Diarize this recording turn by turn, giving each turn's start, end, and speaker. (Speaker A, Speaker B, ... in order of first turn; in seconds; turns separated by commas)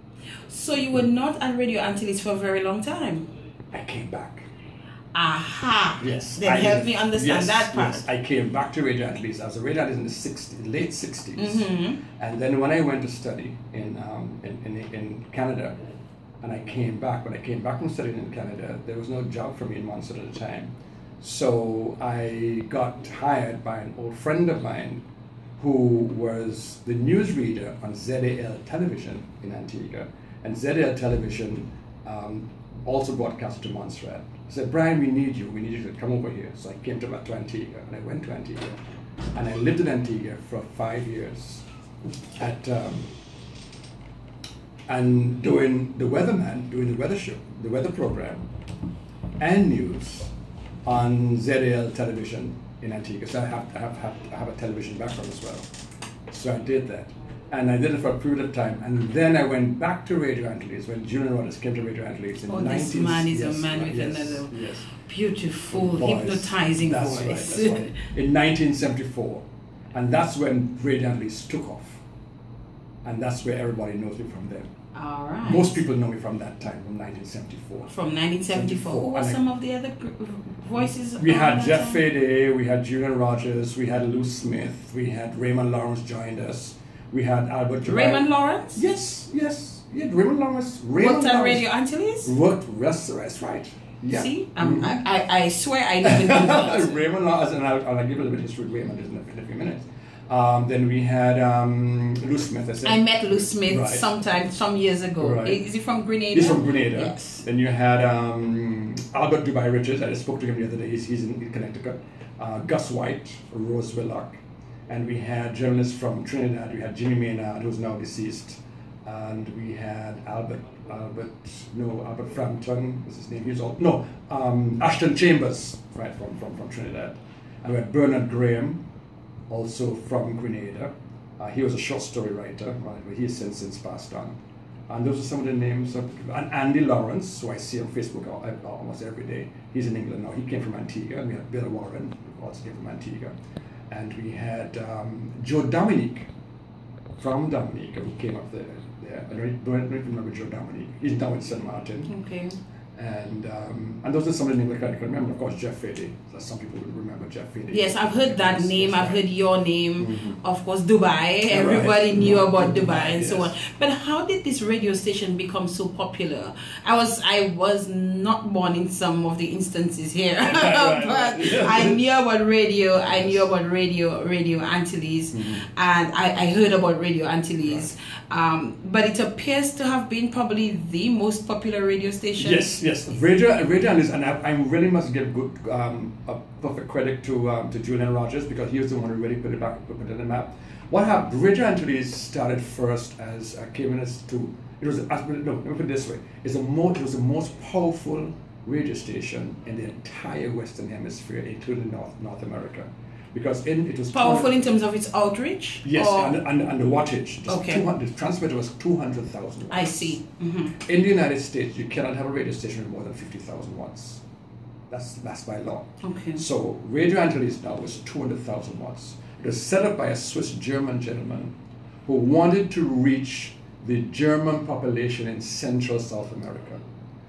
Speaker A: 0.5-3.3, Speaker B: 3.7-4.5, Speaker A: 5.1-8.1, Speaker B: 6.0-15.8, Speaker A: 11.4-12.0, Speaker B: 16.4-25.0, Speaker B: 25.6-38.8, Speaker B: 39.3-41.6, Speaker B: 42.4-43.1, Speaker B: 44.9-48.5, Speaker B: 49.4-50.3, Speaker B: 50.9-55.7, Speaker B: 56.3-64.9, Speaker A: 62.5-67.9, Speaker B: 65.7-72.0, Speaker B: 73.0-74.7, Speaker A: 74.9-75.8, Speaker B: 75.4-77.9, Speaker A: 77.9-82.0, Speaker B: 78.5-79.4, Speaker B: 81.2-91.6, Speaker A: 87.8-88.8, Speaker A: 91.0-92.3, Speaker B: 92.2-94.9, Speaker A: 94.1-97.0, Speaker B: 96.0-104.1, Speaker A: 102.8-107.4, Speaker B: 105.2-105.6, Speaker B: 106.3-128.8, Speaker B: 129.5-134.4, Speaker B: 134.9-143.3, Speaker B: 143.9-146.3, Speaker B: 147.2-152.1, Speaker A: 152.1-152.6, Speaker B: 152.9-159.2, Speaker A: 157.7-182.7, Speaker B: 160.0-160.4, Speaker B: 161.5-163.5, Speaker B: 170.4-172.1, Speaker B: 173.0-173.4, Speaker B: 175.3-175.7, Speaker B: 182.4-204.6, Speaker A: 204.1-206.3, Speaker B: 205.8-210.2, Speaker A: 207.5-207.8, Speaker A: 209.7-210.8, Speaker B: 210.8-214.2, Speaker B: 214.9-221.5, Speaker A: 216.0-216.4, Speaker B: 222.1-226.8